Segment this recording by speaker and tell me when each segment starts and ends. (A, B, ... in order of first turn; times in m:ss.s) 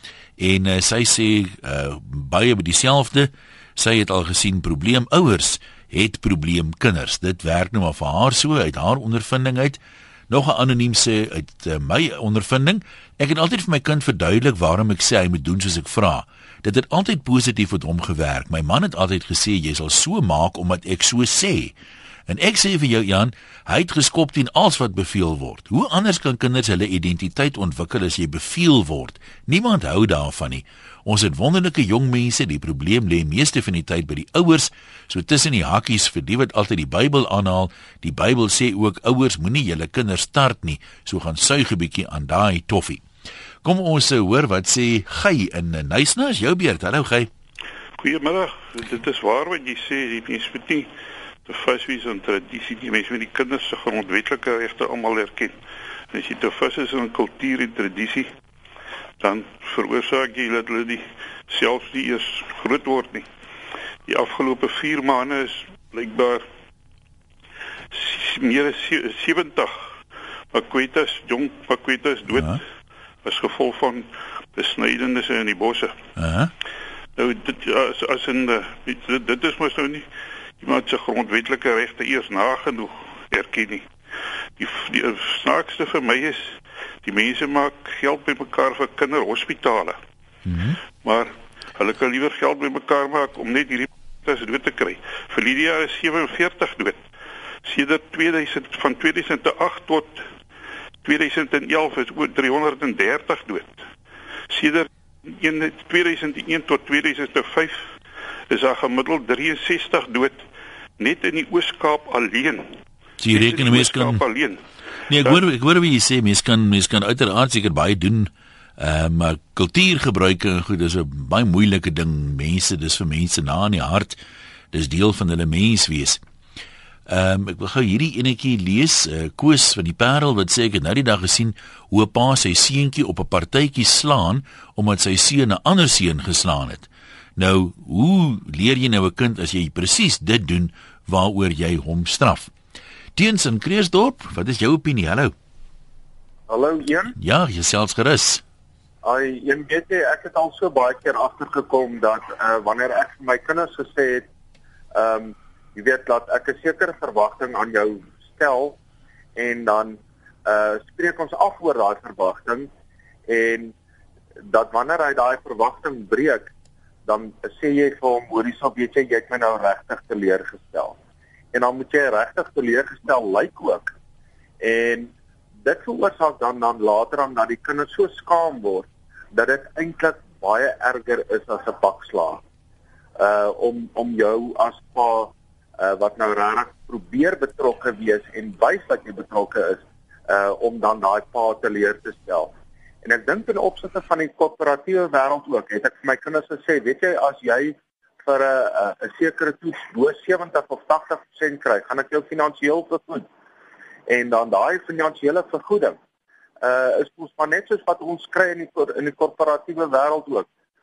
0:00.4-0:09.8 A
0:10.3-0:21.7 A
0:22.3-0:43.0 A
0:43.6-0:47.3 A
0:48.0-0:50.9 B
0:51.4-0:55.5 B
0:56.1-0:58.3 B
0:59.2-1:03.2 B
1:04.1-1:06.4 B
1:07.9-1:09.9 B
1:10.5-1:12.6 B
1:12.3-1:12.6 A
1:13.2-1:15.9 B
1:16.2-1:16.5 A
1:17.2-1:20.1 B
1:20.6-1:23.9 B
1:24.6-1:30.0 B
1:30.4-1:30.8 A
1:31.0-1:37.0 B
1:37.6-1:40.2 B
1:41.0-1:43.8 B
1:44.5-1:47.9 B
1:48.5-1:50.4 B
1:51.0-1:52.8 B
1:53.2-1:54.2 A
1:53.2-1:54.6 B
1:55.1-2:04.2 A
1:55.1-1:55.4 B
2:04.7-2:06.2 A
2:07.1-2:22.5 A
2:23.2-2:25.3 A
2:26.5-2:27.1 C
2:27.2-2:28.4 A
2:29.0-2:34.2 C
2:34.9-2:38.8 C
2:39.4-2:42.7 C
2:43.3-2:43.7 C
2:44.5-2:46.5 C
2:47.1-2:51.0 C
2:51.5-2:53.9 C
2:54.6-2:55.1 C
2:55.6-3:02.4 C
3:03.2-3:12.5 C
3:13.0-3:23.2 C
3:24.1-3:26.0 C
3:26.6-3:30.5 C